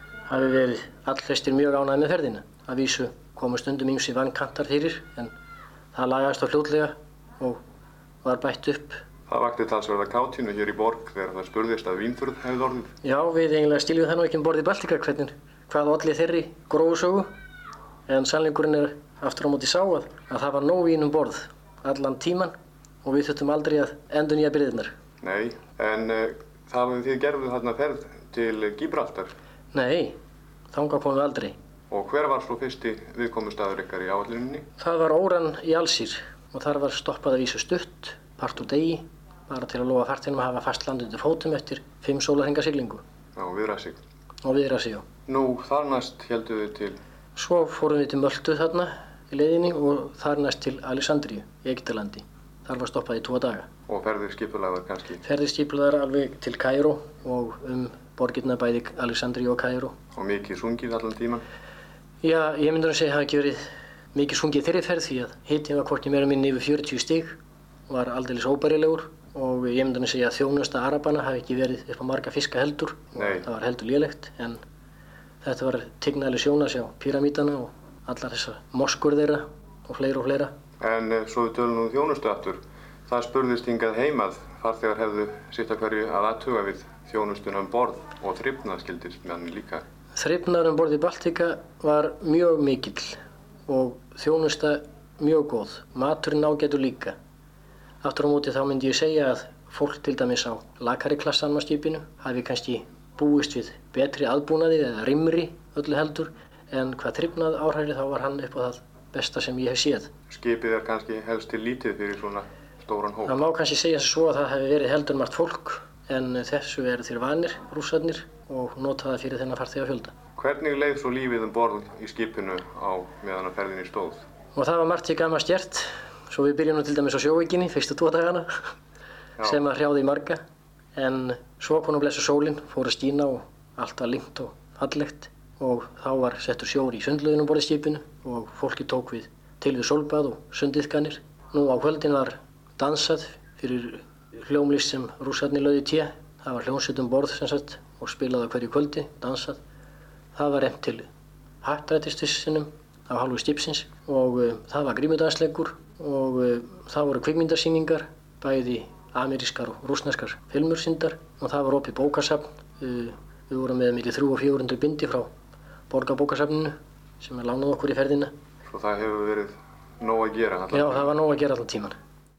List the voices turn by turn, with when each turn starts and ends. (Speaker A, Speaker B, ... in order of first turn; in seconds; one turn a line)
Speaker A: 0.3-5.3
Speaker A: 5.9-7.6
Speaker A: 8.2-9.0
Speaker B: 9.3-12.9
Speaker A: 13.0-17.3
Speaker A: 18.1-24.9
Speaker B: 25.2-29.3
Speaker A: 29.7-30.2
Speaker A: 30.7-31.6
Speaker B: 31.9-34.7
Speaker A: 34.8-43.0
Speaker B: 43.4-44.0
Speaker A: 44.4-45.1
Speaker B: 45.3-47.0
Speaker A: 47.4-53.7
Speaker B: 53.9-55.2
Speaker A: 55.2-59.9
Speaker B: 60.1-61.4
Speaker A: 62.2-67.4
Speaker A: 67.9-74.6
Speaker B: 73.2-73.5
Speaker A: 75.4-80.5
Speaker B: 80.8-89.8
Speaker A: 90.2-97.2
Speaker A: 98.0-110.1
Speaker B: 110.3-113.5
Speaker A: 113.2-120.2
Speaker B: 120.4-124.2
Speaker A: 124.5-128.7
Speaker A: 129.4-130.4
Speaker A: 130.9-149.6
Speaker A: 150.3-151.1
Speaker A: 151.6-165.3
Speaker A: 165.9-168.3
Speaker B: 168.7-171.1
Speaker A: 170.7-172.0